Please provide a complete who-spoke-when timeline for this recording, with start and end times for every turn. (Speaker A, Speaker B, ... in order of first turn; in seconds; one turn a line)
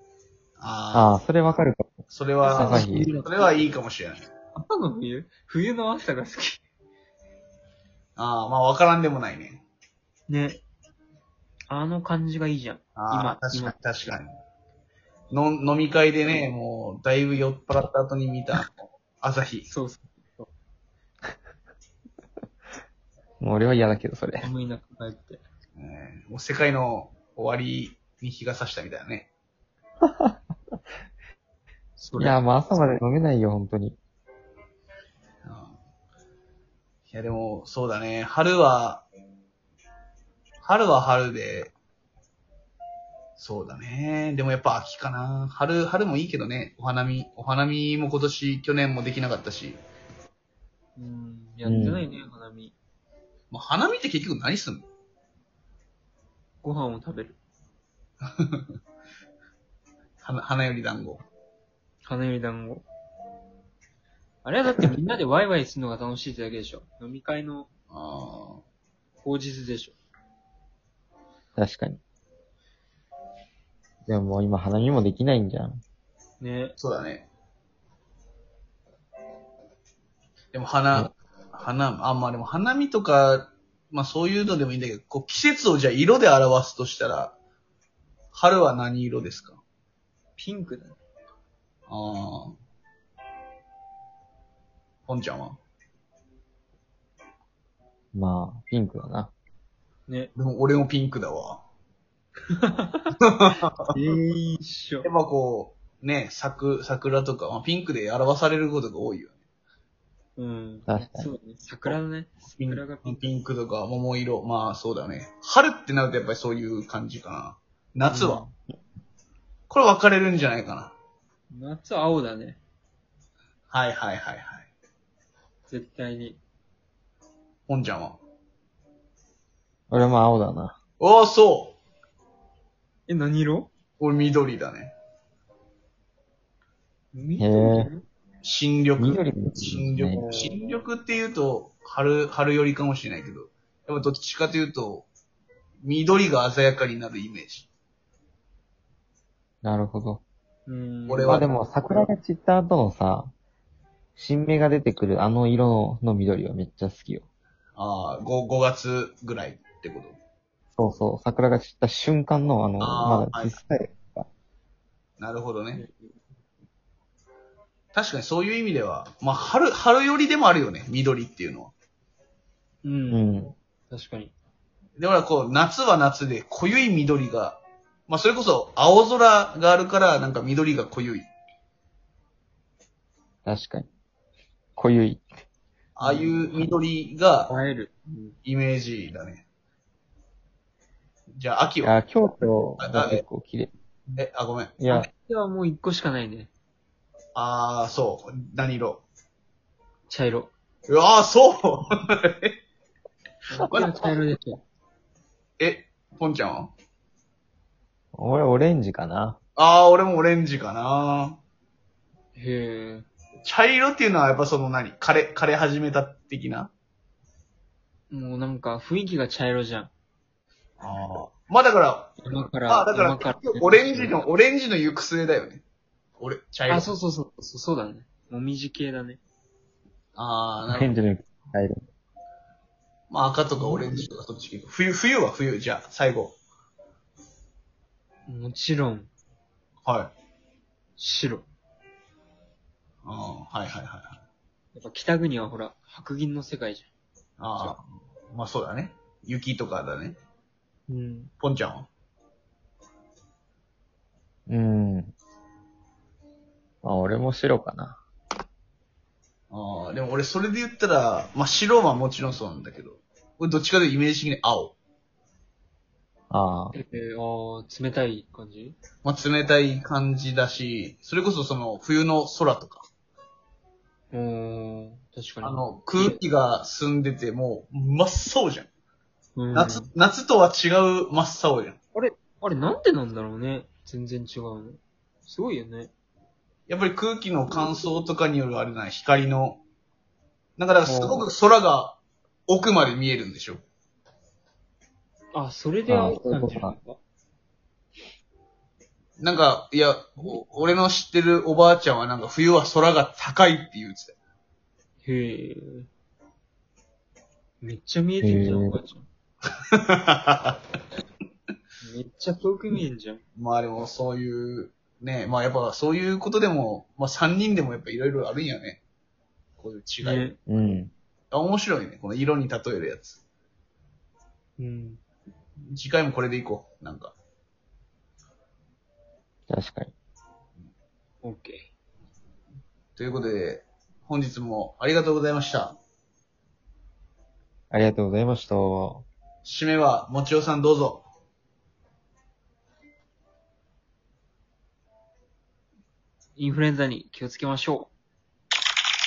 Speaker A: 0.6-1.2
Speaker B: 0.9-2.0
Speaker A: 2.1-4.3
Speaker C: 2.4-3.7
Speaker B: 2.6-3.1
Speaker C: 4.5-6.6
Speaker A: 8.2-9.6
Speaker C: 10.3-10.6
Speaker C: 11.7-13.7
Speaker A: 12.9-14.3
Speaker A: 15.3-19.7
Speaker C: 19.7-20.5
Speaker B: 23.4-24.5
Speaker C: 24.4-25.4
Speaker A: 25.8-29.3
Speaker B: 30.1-30.3
Speaker C: 32.0-32.4
Speaker B: 32.2-34.0
Speaker A: 35.4-35.7
Speaker A: 37.1-39.0
Speaker A: 40.6-41.7
Speaker A: 43.4-49.8
Speaker C: 51.0-52.7
Speaker B: 51.6-52.0
Speaker A: 53.5-54.9
Speaker C: 56.6-57.4
Speaker A: 60.2-61.2
Speaker C: 62.0-62.8
Speaker C: 64.4-67.7
Speaker A: 67.9-68.6
Speaker C: 69.2-70.0
Speaker B: 71.5-72.0
Speaker B: 74.0-75.8
Speaker C: 76.4-76.7
Speaker A: 76.8-77.3
Speaker A: 80.5-87.4
Speaker A: 88.3-89.6
Speaker C: 90.4-91.0
Speaker A: 91.9-92.5
Speaker A: 95.1-95.6
Speaker B: 98.1-99.3
Speaker A: 100.3-101.6
Speaker C: 102.5-103.1
Speaker A: 103.3-103.9
Speaker C: 103.9-105.1
Speaker A: 105.0-109.3
Speaker C: 110.4-113.3
Speaker B: 110.9-111.3
Speaker A: 112.5-118.4
Speaker C: 118.1-118.5
Speaker A: 119.7-120.9
Speaker C: 121.5-122.6
Speaker A: 123.7-124.7
Speaker C: 125.7-126.4
Speaker A: 127.7-128.2
Speaker B: 129.9-130.8
Speaker A: 131.0-131.8
Speaker C: 133.1-133.7
Speaker A: 134.0-134.9
Speaker C: 137.1-138.1
Speaker B: 137.4-137.9
Speaker A: 138.4-145.1
Speaker B: 139.0-140.2
Speaker C: 140.1-140.8
Speaker A: 145.8-147.7
Speaker B: 149.6-150.2
Speaker C: 150.7-151.5
Speaker A: 151.1-151.5
Speaker B: 151.3-153.3
Speaker B: 154.2-157.2
Speaker A: 157.8-160.2
Speaker B: 160.8-164.3
Speaker A: 162.8-163.6
Speaker A: 165.2-165.8
Speaker C: 165.7-166.2
Speaker A: 167.9-171.7
Speaker C: 172.8-173.3
Speaker B: 173.1-173.5
Speaker C: 173.9-174.3
Speaker A: 175.0-181.3
Speaker B: 183.4-183.9
Speaker B: 184.8-185.3
Speaker A: 185.9-187.6
Speaker C: 186.0-186.3
Speaker C: 187.5-188.3
Speaker A: 188.4-189.4
Speaker A: 191.4-192.0
Speaker B: 191.8-193.7
Speaker A: 192.8-193.2
Speaker A: 194.2-194.8
Speaker B: 194.8-195.1
Speaker C: 194.9-196.5
Speaker A: 197.3-199.0
Speaker C: 200.1-200.5
Speaker A: 200.9-202.5
Speaker C: 203.5-204.6
Speaker A: 203.7-204.2
Speaker A: 205.6-206.7
Speaker B: 208.1-209.4
Speaker A: 209.6-211.4
Speaker C: 212.3-213.1
Speaker A: 213.4-216.7
Speaker C: 218.1-219.9
Speaker A: 220.8-222.1
Speaker C: 222.2-224.2
Speaker A: 222.7-225.6
Speaker A: 226.2-226.9
Speaker C: 226.7-229.2
Speaker A: 230.2-230.9
Speaker B: 230.7-231.8
Speaker A: 233.1-236.3
Speaker C: 238.3-239.1
Speaker A: 239.8-240.1
Speaker C: 241.0-241.4
Speaker A: 243.0-244.2
Speaker C: 244.7-246.9
Speaker A: 247.4-250.2
Speaker C: 250.9-251.3
Speaker A: 251.4-251.9
Speaker B: 254.5-255.1
Speaker B: 256.8-258.0
Speaker A: 259.5-264.8
Speaker B: 266.3-266.8
Speaker C: 266.7-268.8
Speaker A: 269.0-272.9
Speaker C: 274.1-276.2
Speaker A: 275.4-278.7
Speaker C: 279.4-279.9
Speaker A: 279.5-281.8
Speaker C: 281.9-285.9
Speaker A: 286.7-289.6
Speaker A: 290.6-293.6
Speaker B: 290.9-291.2
Speaker C: 295.3-297.0
Speaker B: 295.9-296.8
Speaker A: 299.2-304.1
Speaker C: 305.0-305.9
Speaker C: 307.6-309.1
Speaker B: 308.2-308.8
Speaker A: 309.9-310.6
Speaker C: 311.8-313.2
Speaker A: 313.4-318.8
Speaker A: 319.6-320.3
Speaker C: 320.0-320.4
Speaker B: 320.5-320.9
Speaker A: 321.3-323.2
Speaker C: 324.6-325.0
Speaker A: 325.7-327.1
Speaker B: 329.5-329.9
Speaker C: 331.2-331.7
Speaker A: 332.9-335.8
Speaker B: 337.7-339.0
Speaker A: 339.4-341.1
Speaker C: 346.4-347.9